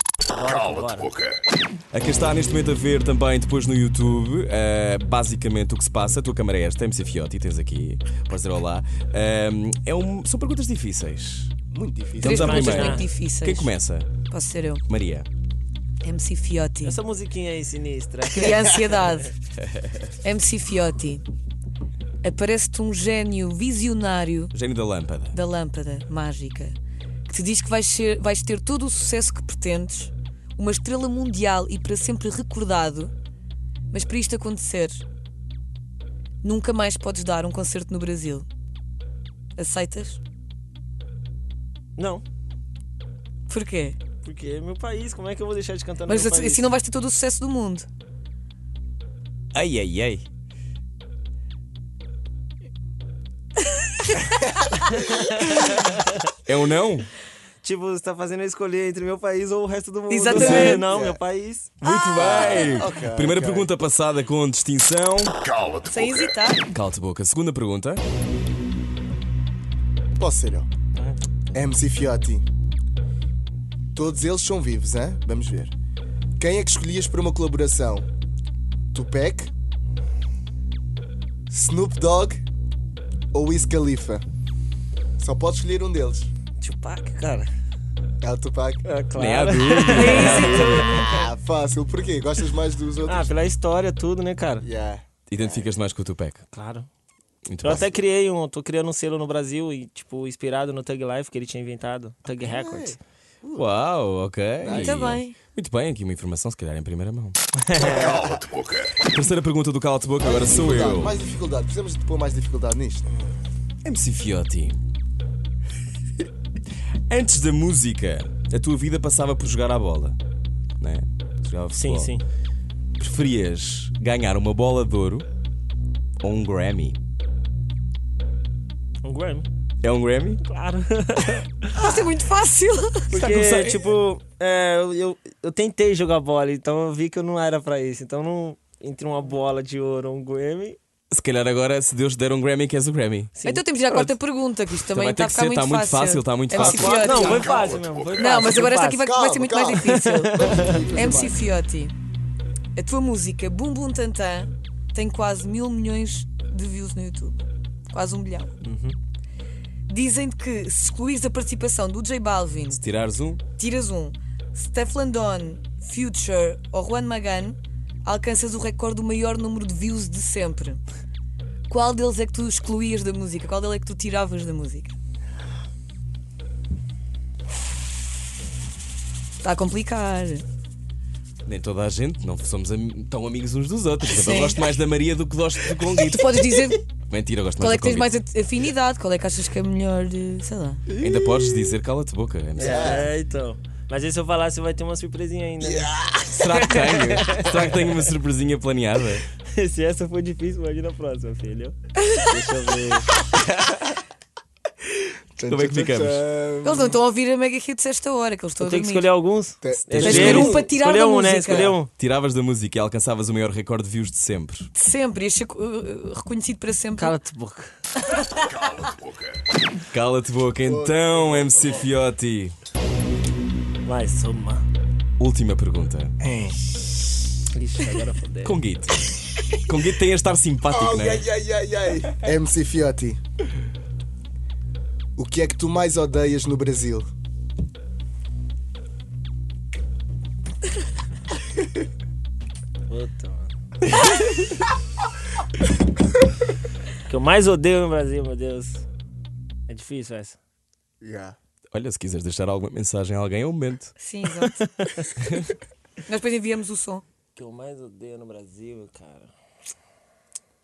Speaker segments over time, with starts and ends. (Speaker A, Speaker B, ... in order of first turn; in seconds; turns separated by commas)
Speaker A: 0.3-1.1, Speaker B: 0.4-1.4, Speaker C: 1.9-11.5, Speaker D: 11.7-12.5, Speaker E: 12.2-13.7, Speaker C: 12.2-14.1, Speaker A: 12.2-13.0, Speaker E: 14.3-14.8, Speaker C: 14.9-15.3, Speaker E: 16.0-17.0, Speaker A: 16.8-19.0, Speaker E: 18.3-19.3, Speaker E: 20.2-21.2, Speaker E: 22.2-24.5, Speaker C: 24.5-25.3, Speaker E: 25.3-26.8, Speaker E: 27.3-33.1, Speaker E: 33.9-35.0, Speaker E: 36.4-38.5, Speaker E: 39.5-40.2, Speaker A: 42.0-42.2, Speaker E: 43.5-44.0, Speaker A: 44.2-46.7, Speaker E: 46.1-47.9, Speaker C: 49.5-50.2, Speaker A: 55.1-56.1, Speaker C: 56.4-57.1, Speaker A: 57.6-61.8, Speaker E: 60.1-60.8, Speaker C: 60.3-60.8, Speaker D: 60.8-61.2, Speaker C: 61.8-65.3, Speaker E: 61.8-62.8, Speaker D: 62.1-63.7, Speaker B: 65.4-66.3, Speaker E: 65.9-66.7, Speaker C: 66.7-68.0, Speaker D: 70.2-70.7, Speaker A: 71.0-71.6, Speaker D: 71.5-72.4, Speaker D: 73.9-75.7, Speaker D: 76.4-78.1, Speaker D: 78.9-79.5, Speaker D: 81.5-82.4, Speaker D: 83.3-84.2, Speaker D: 85.2-86.3, Speaker A: 86.6-87.5, Speaker D: 88.2-88.9, Speaker A: 88.8-91.1, Speaker C: 89.1-90.9, Speaker E: 89.9-91.1, Speaker D: 90.8-93.3, Speaker A: 93.1-94.7, Speaker D: 94.6-95.7, Speaker C: 95.3-96.4, Speaker A: 96.5-96.9, Speaker C: 97.5-97.9, Speaker A: 97.6-103.0, Speaker D: 102.3-103.8, Speaker C: 103.5-107.3, Speaker D: 104.6-105.2, Speaker E: 104.7-105.4, Speaker A: 107.6-108.0, Speaker D: 107.8-108.4, Speaker B: 107.8-109.1, Speaker C: 109.0-111.2, Speaker D: 110.2-113.1, Speaker C: 113.8-114.8, Speaker C: 117.1-120.2, Speaker C: 120.8-122.2, Speaker A: 121.7-122.2, Speaker C: 123.0-125.2, Speaker C: 126.2-127.0, Speaker A: 129.0-129.5, Speaker C: 129.8-130.4, Speaker A: 130.4-131.7, Speaker E: 131.7-133.1, Speaker C: 133.1-133.9, Speaker A: 133.1-140.8, Speaker C: 141.1-143.3, Speaker A: 143.3-144.1, Speaker E: 143.4-150.0, Speaker C: 144.9-147.4, Speaker D: 146.5-147.9, Speaker A: 147.0-149.0, Speaker B: 147.5-148.2, Speaker D: 149.0-151.4, Speaker A: 149.8-150.8, Speaker E: 150.9-151.9, Speaker E: 152.7-158.5, Speaker A: 158.6-158.9, Speaker E: 159.9-162.8, Speaker C: 162.7-163.4, Speaker E: 163.6-170.8, Speaker E: 171.7-174.9, Speaker E: 179.4-180.4, Speaker C: 181.4-186.5, Speaker E: 184.1-184.6, Speaker E: 185.9-186.9, Speaker C: 187.1-188.1, Speaker E: 187.6-190.8, Speaker C: 191.0-193.1, Speaker A: 192.6-197.9, Speaker D: 192.6-193.1, Speaker D: 195.6-196.3, Speaker C: 196.3-199.3, Speaker A: 199.4-203.2, Speaker D: 205.4-207.0, Speaker C: 205.5-206.2, Speaker E: 206.6-209.1, Speaker A: 208.6-211.9, Speaker D: 209.6-210.7, Speaker C: 209.9-210.5, Speaker E: 210.0-211.8, Speaker C: 212.0-214.7, Speaker E: 214.7-217.2, Speaker A: 217.0-217.7, Speaker B: 218.5-219.4, Speaker C: 219.9-222.5, Speaker D: 220.6-221.9, Speaker A: 223.8-224.7, Speaker C: 225.2-226.1, Speaker D: 226.2-226.6, Speaker A: 227.5-228.6, Speaker C: 228.4-231.2, Speaker D: 230.6-233.2, Speaker D: 235.2-237.1, Speaker A: 242.9-243.5, Speaker A: 247.1-248.8, Speaker A: 249.7-250.4, Speaker D: 251.0-251.3, Speaker C: 251.7-253.9, Speaker E: 254.0-254.7, Speaker A: 254.6-255.0, Speaker C: 255.2-255.4, Speaker E: 256.1-257.0, Speaker A: 257.3-259.3